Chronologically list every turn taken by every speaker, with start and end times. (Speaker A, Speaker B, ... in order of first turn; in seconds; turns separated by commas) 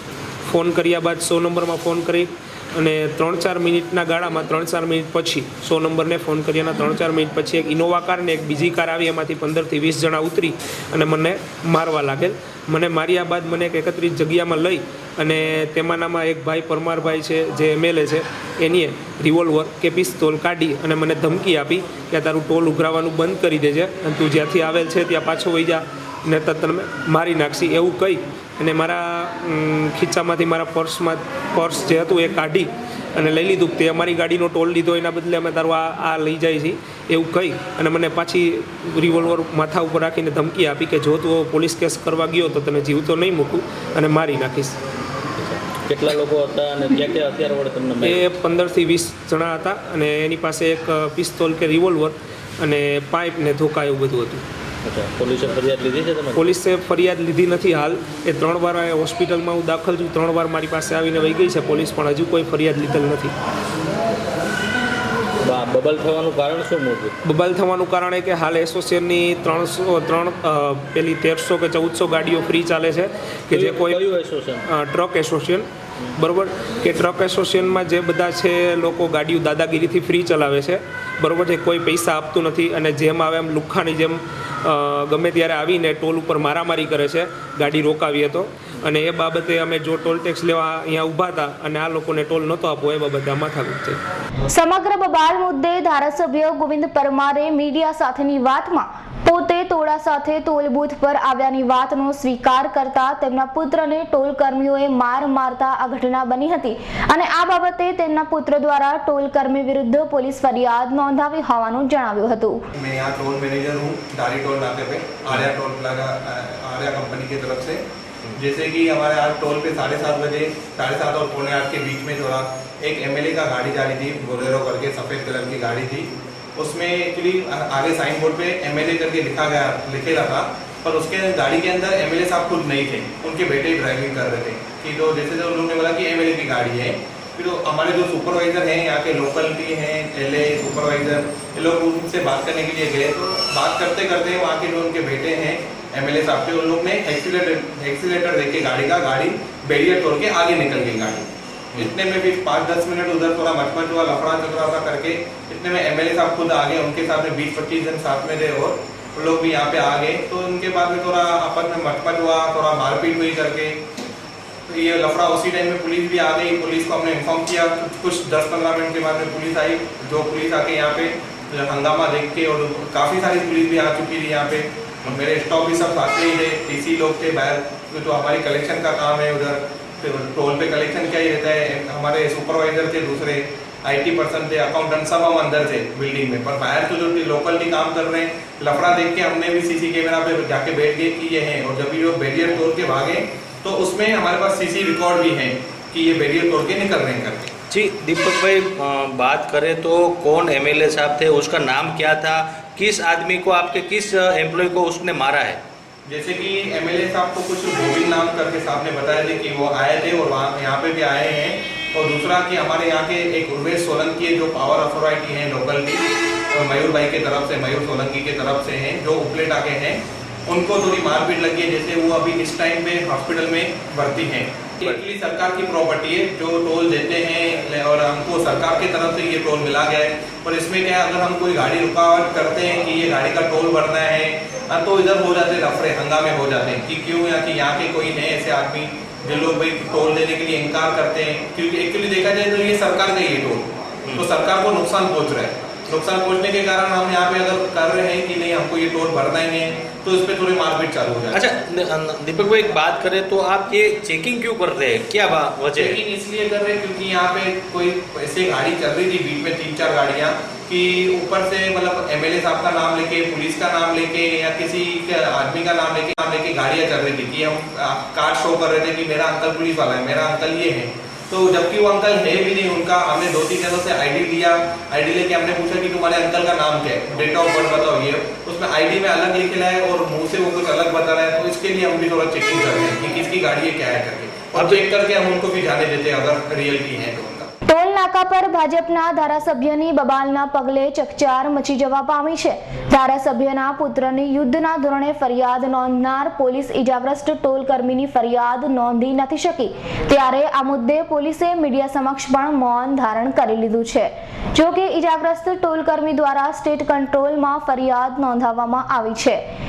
Speaker A: 0.4-44.8, Speaker B: 45.4-48.3, Speaker A: 48.0-54.4, Speaker B: 54.8-56.5, Speaker A: 56.3-63.3, Speaker B: 65.4-67.1, Speaker A: 67.2-74.0, Speaker B: 73.5-74.6, Speaker A: 74.6-94.0, Speaker C: 94.5-112.6, Speaker D: 112.7-117.8, Speaker D: 118.3-163.8, Speaker D: 164.7-197.5, Speaker B: 197.7-205.6, Speaker D: 206.1-251.4, Speaker B: 251.3-256.0, Speaker D: 255.7-287.5, Speaker B: 284.6-284.8, Speaker C: 287.7-309.4